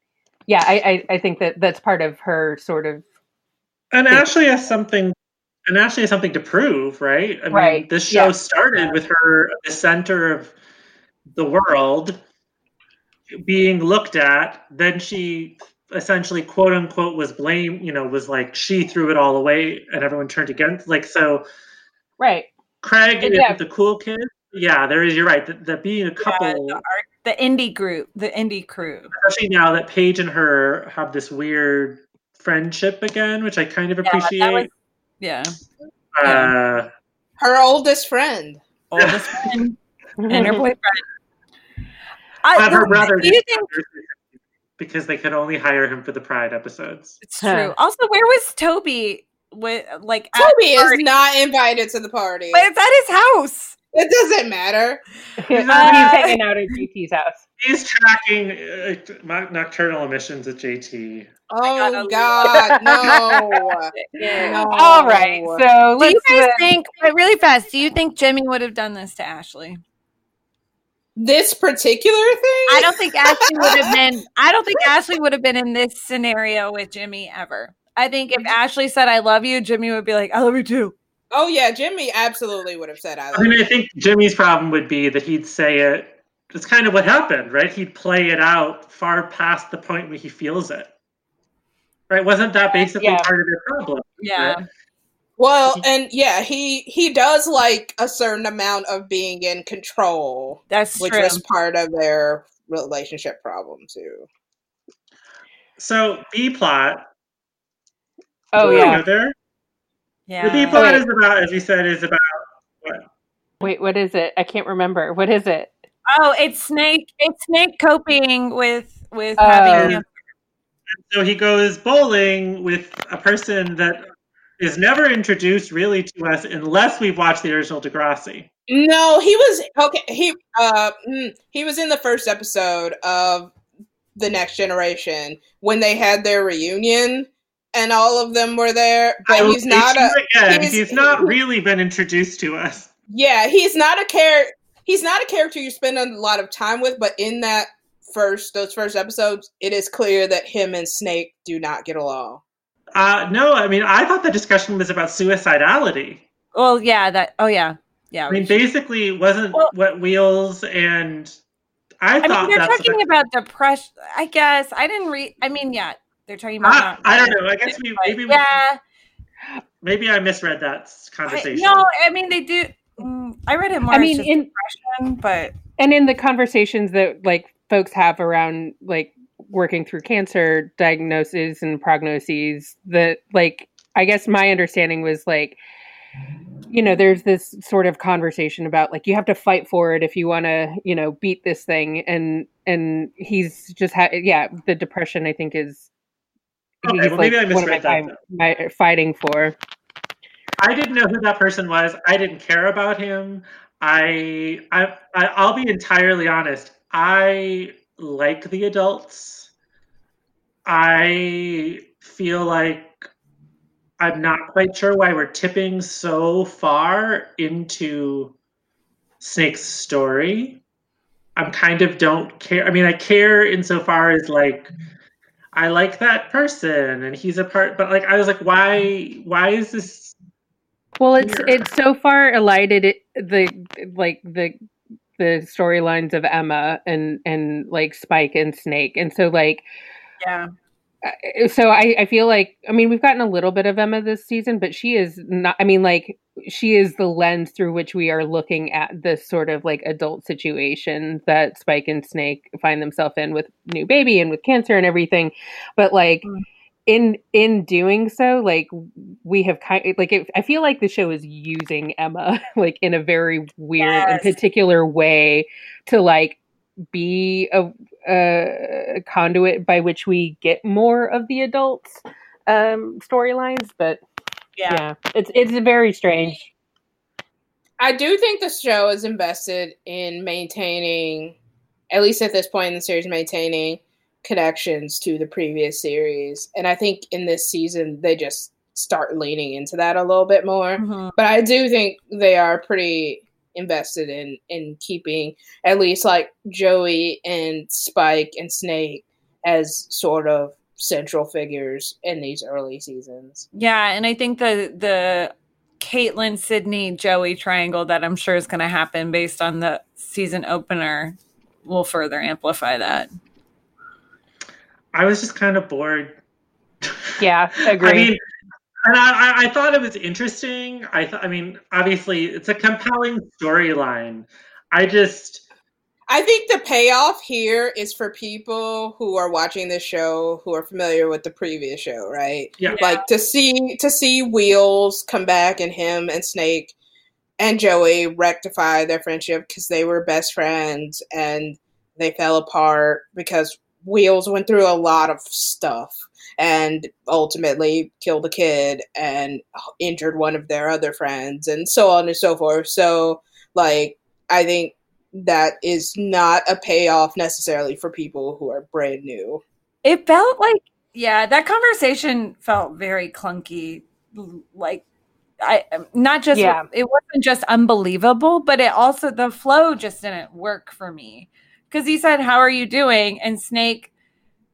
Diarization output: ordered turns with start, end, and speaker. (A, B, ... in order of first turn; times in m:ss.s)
0:00.5-0:03.0 A
0:03.9-0:05.2 B
0:05.7-0:10.5 B
0:07.5-0:08.3 A
0:11.3-0:12.2 B
0:13.4-0:21.4 B
0:22.2-0:22.5 A
0:22.8-0:26.8 B
0:23.2-0:23.6 A
0:26.2-0:29.1 C
0:29.2-0:34.7 B
0:34.0-0:34.7 C
0:35.2-0:35.6 C
0:36.2-0:36.9 B
0:36.2-0:36.5 C
0:37.4-0:38.6 D
0:38.9-0:41.0 C
0:39.0-0:39.4 B
0:40.2-0:40.6 A
0:42.4-0:43.7 C
0:42.5-0:44.2 B
0:44.8-0:47.2 B
0:47.2-0:51.0 C
0:47.4-0:47.7 A
0:50.4-0:52.7 D
0:52.5-0:53.8 C
0:53.9-0:55.0 D
0:55.4-0:57.4 A
0:55.5-0:56.3 B
0:55.7-0:56.4 C
0:57.6-1:01.3 B
1:01.5-1:05.6 D
1:01.7-1:03.2 C
1:02.5-1:03.3 A
1:03.9-1:04.6 C
1:04.2-1:06.7 A
1:06.0-1:09.8 C
1:11.2-1:13.9 D
1:12.7-1:20.9 C
1:21.3-1:23.6 D
1:23.3-1:30.9 B
1:32.1-1:34.6 B
1:33.0-1:33.3 A
1:34.2-1:34.6 C
1:35.4-1:44.3 D
1:40.7-1:41.4 C
1:45.8-1:47.1 B
1:48.5-1:49.0 A
1:48.6-1:49.4 B
1:50.3-1:50.8 C
1:50.4-1:53.1 B
1:50.7-1:51.0 A
1:53.6-1:55.7 A
1:56.1-2:00.1 C
1:59.4-2:00.0 A
1:59.7-2:00.0 B
2:00.9-2:04.0 B
2:04.6-2:08.5 B
2:08.7-2:13.5 D
2:14.2-2:21.4 D
2:19.3-2:22.9 B
2:23.1-2:32.4 D
2:33.0-2:36.2 B
2:36.5-2:38.6 C
2:38.3-2:41.4 B
2:42.0-2:43.0 B
2:42.2-2:48.8 C
2:46.6-2:48.5 B
2:49.8-2:51.8 B
2:51.3-2:55.5 C
2:53.9-2:54.5 A
2:55.8-3:05.6 A
3:06.7-3:15.9 A
3:16.8-3:18.2 B
3:16.8-3:19.6 A
3:20.6-3:29.5 B
3:30.7-3:33.1 B
3:34.0-3:38.4 B
3:39.2-3:40.6 B
3:41.4-3:44.7 B
3:45.6-3:50.2 B
3:51.0-3:54.6 A
3:51.2-3:51.6 B
3:55.2-3:59.6 A
4:00.2-4:00.5 C
4:01.0-4:16.3 A
4:16.9-4:26.4 A
4:23.8-4:24.3 C
4:26.9-4:34.0 A
4:34.7-4:36.5 A
4:37.8-4:41.4 D
4:41.9-5:03.5 D
4:50.8-4:51.2 C
5:03.5-5:13.1 C
5:14.9-5:16.2 B
5:16.8-5:17.2 B
5:17.2-5:18.1 A
5:17.7-5:18.2 B
5:18.8-5:25.4 B
5:26.1-5:36.8 D
5:32.6-5:32.8 B
5:32.6-5:33.0 C
5:37.4-5:59.4 D
5:59.8-6:04.8 C
6:05.4-6:13.9 C
6:06.3-6:06.6 A